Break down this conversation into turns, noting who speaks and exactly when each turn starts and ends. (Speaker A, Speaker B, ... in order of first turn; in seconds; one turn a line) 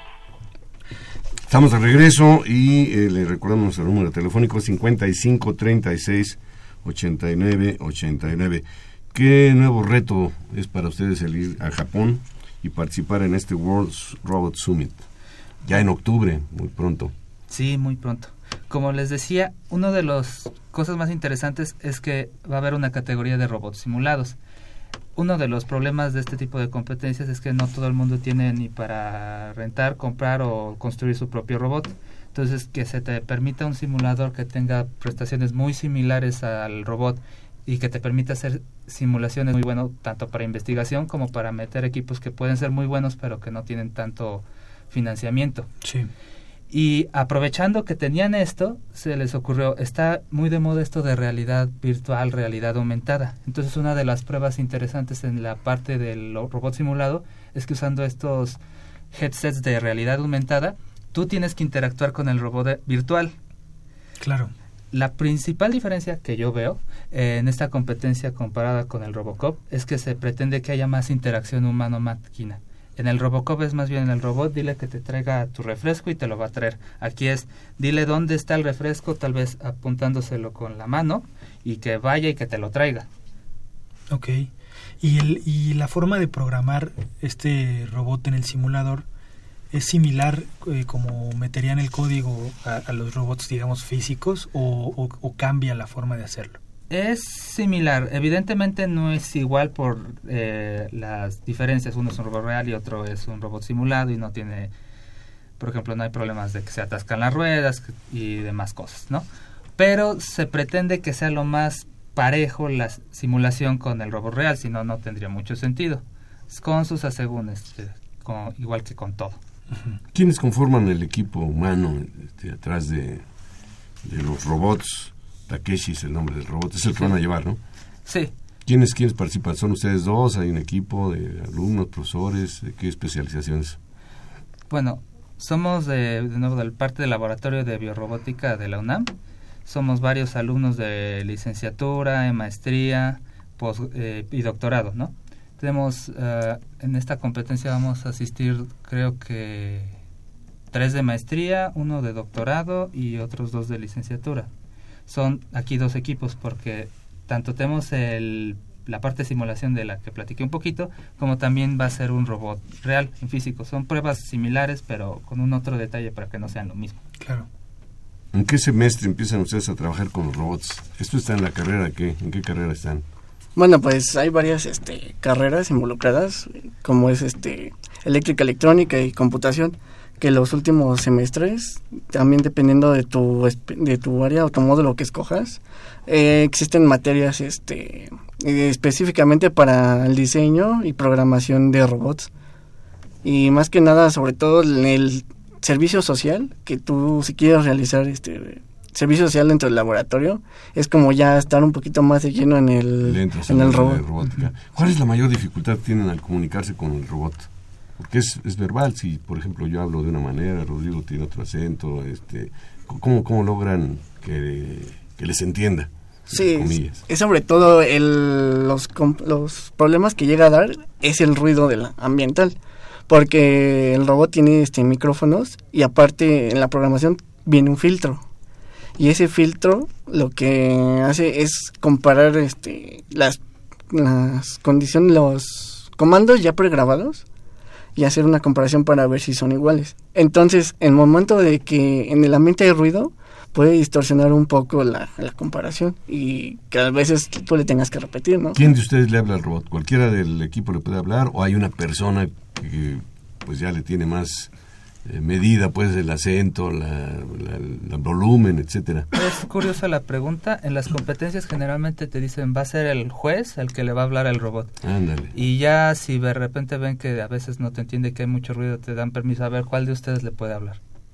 Speaker A: 1.5-15.0
Speaker A: 15.6-17.1
Speaker B: 17.5-24.4
Speaker B: 25.2-45.7
Speaker C: 45.8-46.1
Speaker B: 46.7-58.6
Speaker B: 59.1-63.3
Speaker C: 64.2-64.5
Speaker B: 64.9-83.1
Speaker C: 84.1-89.0
Speaker C: 89.7-96.6
Speaker B: 96.9-104.7
Speaker B: 105.6-119.4
Speaker C: 119.7-120.0
Speaker A: 120.1-123.2
Speaker A: 124.0-127.6
Speaker B: 128.1-128.3
Speaker A: 128.7-133.8
Speaker B: 134.7-139.1
Speaker B: 139.6-150.0
Speaker B: 150.7-154.5
Speaker B: 155.1-167.0
Speaker C: 167.2-167.5
Speaker A: 168.3-173.0
Speaker D: 173.6-192.3
Speaker D: 193.2-204.0
Speaker A: 203.0-217.0
Speaker D: 216.3-222.6
Speaker D: 223.1-228.2
Speaker D: 229.0-237.2
Speaker D: 237.9-248.6
Speaker A: 248.5-254.5
Speaker A: 255.1-259.1
Speaker B: 259.1-264.7
Speaker A: 264.8-265.3
Speaker B: 265.3-270.8